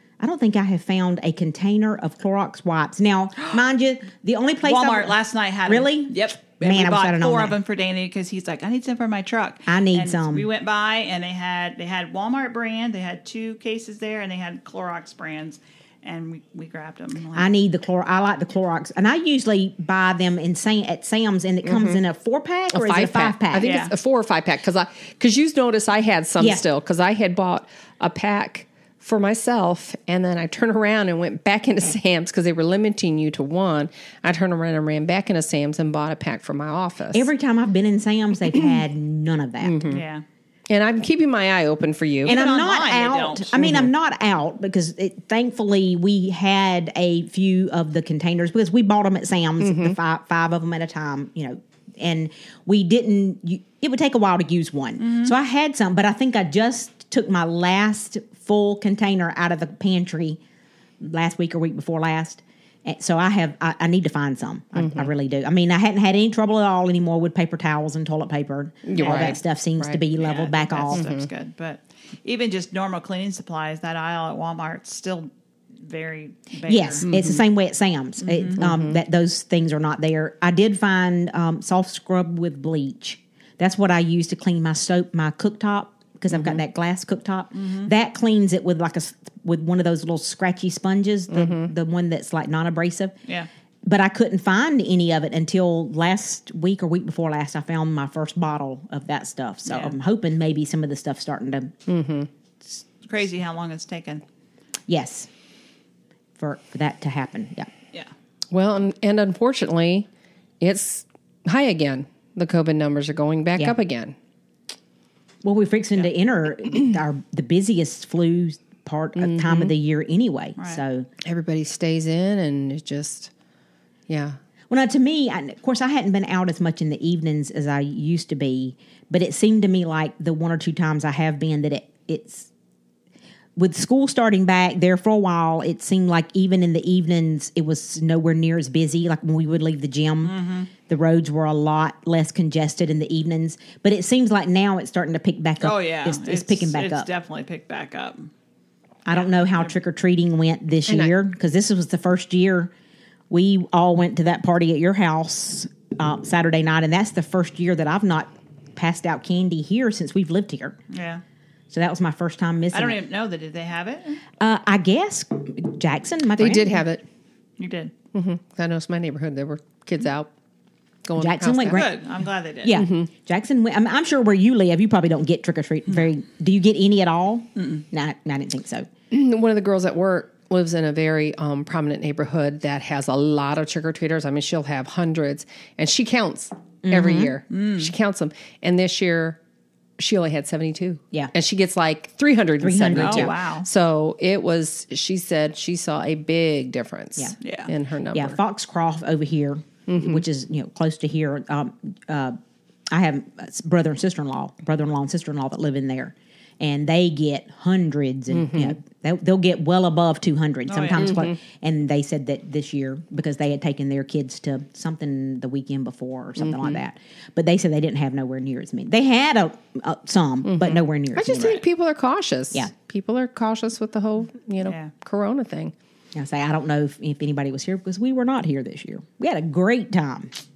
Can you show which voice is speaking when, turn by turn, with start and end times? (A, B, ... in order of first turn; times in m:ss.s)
0:00.2-0:07.6 A
0:04.6-0:17.5 B
0:09.7-0:10.5 A
0:17.3-0:23.7 A
0:21.7-0:22.0 C
0:22.7-0:37.3 C
0:23.6-0:23.9 B
0:26.4-0:26.6 A
0:37.1-0:40.0 A
0:39.6-0:40.0 C
0:39.9-0:40.2 B
0:40.7-0:42.4 C
0:42.2-0:43.6 B
0:42.2-1:00.4 A
0:43.6-0:43.9 C
0:49.6-0:50.0 C
0:55.0-0:55.3 B
1:01.0-1:11.0 A
1:04.8-1:05.1 C
1:08.8-1:10.0 C
1:08.9-1:09.4 B
1:10.2-1:17.0 B
1:10.9-1:11.3 C
1:16.7-1:33.2 A
1:17.0-1:17.4 C
1:18.2-1:18.6 B
1:18.6-1:19.0 C
1:27.6-1:27.9 B
1:31.3-1:31.7 C
1:33.9-1:41.8 A
1:39.6-1:40.0 B
1:41.9-1:42.3 C
1:42.7-1:44.2 B
1:44.9-1:45.3 A
1:46.4-1:47.7 A
1:48.5-1:50.1 C
1:50.6-1:54.2 C
1:55.4-2:01.1 A
1:59.2-1:59.7 C
2:01.2-2:03.3 C
2:04.1-2:04.4 C
2:04.7-2:12.5 A
2:13.6-2:20.4 A
2:20.2-2:20.7 B
2:20.9-2:27.1 A
2:25.6-2:28.3 B
2:29.1-2:32.7 A
2:29.1-2:29.7 B
2:30.9-2:31.1 C
2:33.3-2:40.8 A
2:40.9-2:41.2 B
2:41.7-2:43.0 A
2:42.7-2:44.2 B
2:44.4-2:46.8 A
2:46.4-2:47.0 C
2:47.6-2:47.9 B
2:48.1-2:50.3 C
2:51.1-2:51.9 C
2:51.2-2:51.9 A
2:51.7-2:52.8 B
2:52.6-2:58.9 A
2:52.7-2:53.1 C
2:57.6-2:57.8 B
2:59.1-3:09.4 C
3:06.8-3:07.3 A
3:07.5-3:07.9 B
3:10.0-3:18.4 C
3:12.6-3:13.4 A
3:12.9-3:13.7 B
3:17.4-3:17.7 B
3:18.1-3:22.4 A
3:19.9-3:20.2 C
3:22.9-3:41.6 A
3:28.3-3:28.8 C
3:30.7-3:31.1 B
3:31.0-3:31.3 C
3:36.4-3:36.8 C
3:40.4-3:45.7 C
3:44.6-3:44.9 B
3:46.2-3:50.3 A